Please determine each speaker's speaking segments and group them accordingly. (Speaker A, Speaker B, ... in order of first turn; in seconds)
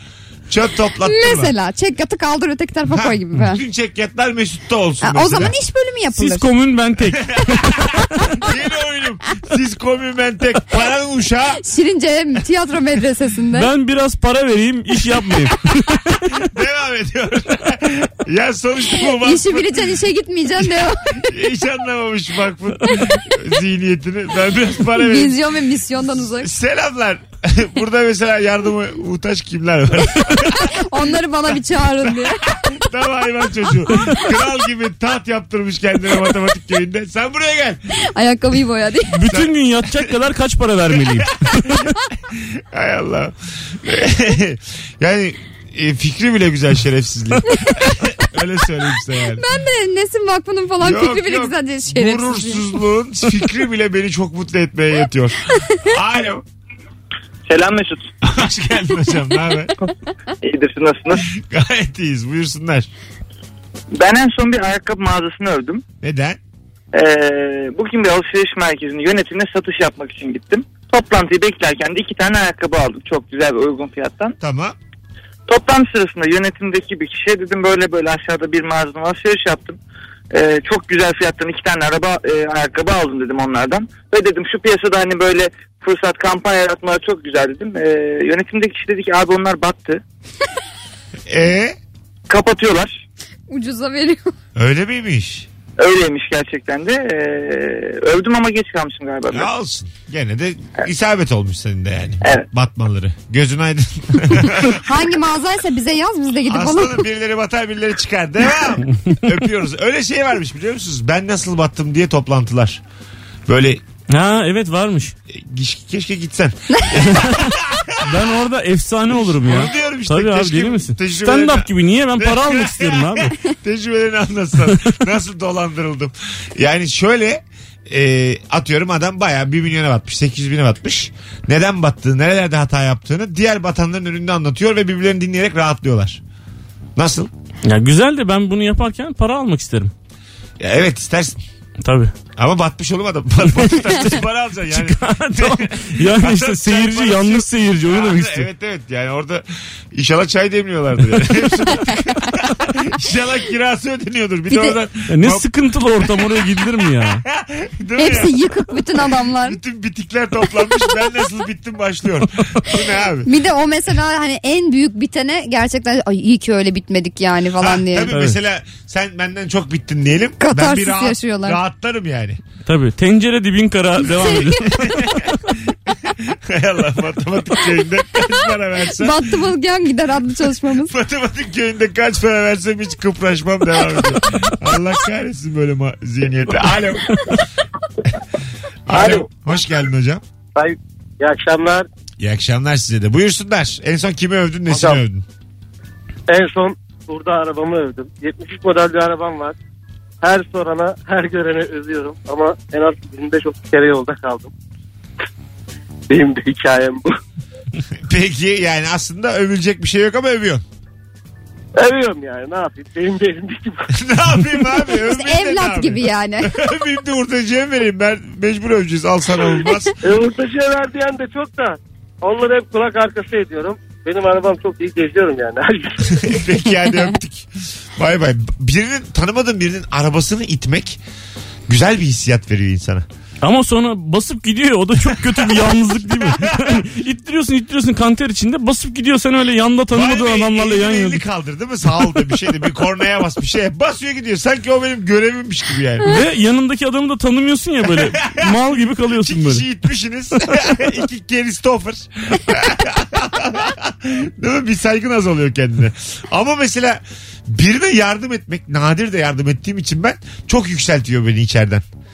Speaker A: 0.5-1.5, 2.9-5.5, 7.3-7.8, 8.4-11.6, 16.3-19.9, 20.6-25.4, 26.3-30.8, 32.0-37.8, 39.3-40.1, 41.2-41.7, 42.3-49.5, 50.8-56.4, 58.2-59.7, 61.2-62.9, 66.0-66.4, 74.4-74.8, 91.3-91.8, 94.5-95.5, 99.3-104.8, 106.5-112.8, 113.5-113.8, 115.3-118.2, 119.3-136.2, 136.9-137.3, 140.6-141.4, 142.4-155.4, 156.0-156.3, 157.0-163.3, 167.6-172.4, 174.7-175.3, 175.9-179.2, 180.8-187.2, 188.9-190.2, 192.2-195.2, 208.0-210.6, 213.9-219.9, 226.1-231.0, 231.7-233.1, 235.4-235.7, 236.2-236.8, 239.9-246.2, 247.8-261.8
Speaker B: 1.0-3.6, 5.0-6.5, 11.6-13.7, 19.2-21.2, 24.9-26.5, 30.6-32.6, 38.0-39.2, 47.5-48.0, 49.4-52.7, 93.5-94.3, 104.6-107.0, 116.7-117.0, 154.5-154.8, 158.0-159.6, 163.2-168.1, 170.4-171.6, 174.2-174.5, 179.0-180.9, 214.8-216.5
Speaker C: 6.1-8.3, 13.5-16.2, 39.1-41.8, 114.1-115.1, 117.0-117.4, 118.0-123.3, 137.6-139.9, 141.8-142.1, 143.6-144.0, 144.7-148.5, 155.1-157.2, 168.1-168.4, 172.7-175.3, 233.4-241.2, 246.1-249.6
Speaker D: 57.5-58.1, 60.4-61.2, 64.0-65.8, 66.9-74.3, 75.5-79.8, 80.3-90.0, 92.3-92.7, 95.8-99.5
Speaker E: 188.9-189.3, 190.6-191.9, 194.7-195.0, 196.3-199.6, 200.2-204.5, 206.1-207.1, 211.8-213.9, 220.0-226.0